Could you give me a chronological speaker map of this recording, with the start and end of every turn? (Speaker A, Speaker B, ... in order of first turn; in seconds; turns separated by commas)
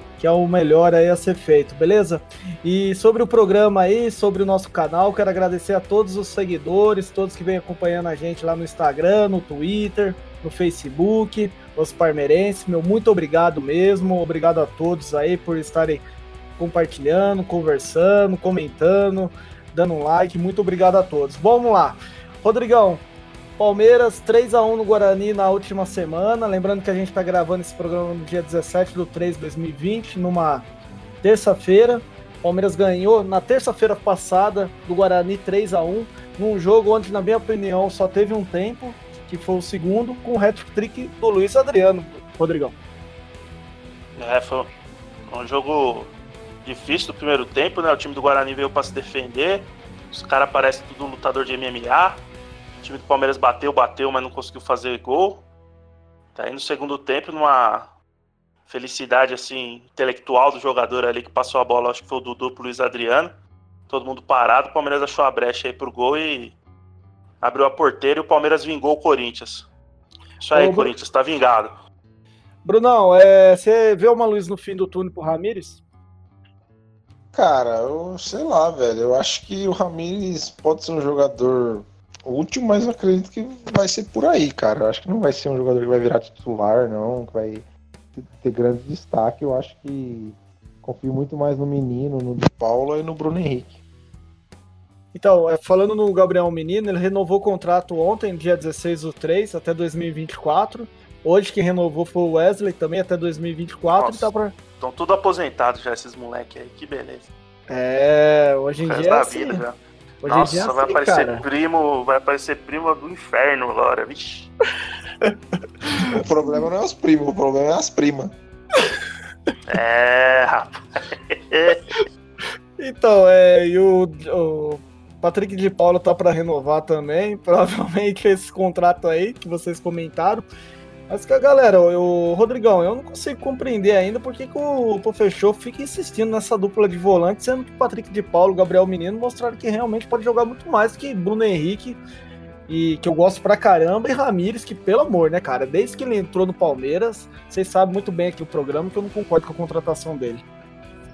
Speaker A: 0.2-16.0, Speaker A: 16.6-23.0, Speaker A: 23.6-30.6, Speaker A: 31.2-42.8, Speaker B: 44.2-44.7, Speaker B: 45.3-46.1, Speaker B: 46.6-52.2, Speaker B: 52.8-55.5, Speaker B: 56.3-57.9, Speaker B: 58.7-63.3, Speaker B: 63.9-66.6, Speaker B: 67.4-69.7, Speaker B: 70.4-71.8, Speaker A: 70.5-70.9, Speaker A: 72.7-75.8, Speaker C: 77.3-93.7, Speaker A: 95.1-104.5, Speaker B: 103.9-107.3, Speaker A: 107.7-109.6, Speaker B: 108.8-114.5, Speaker A: 110.2-111.5, Speaker C: 116.0-118.3, Speaker B: 119.7-121.8, Speaker A: 122.8-130.5, Speaker A: 131.1-142.0, Speaker A: 142.7-150.4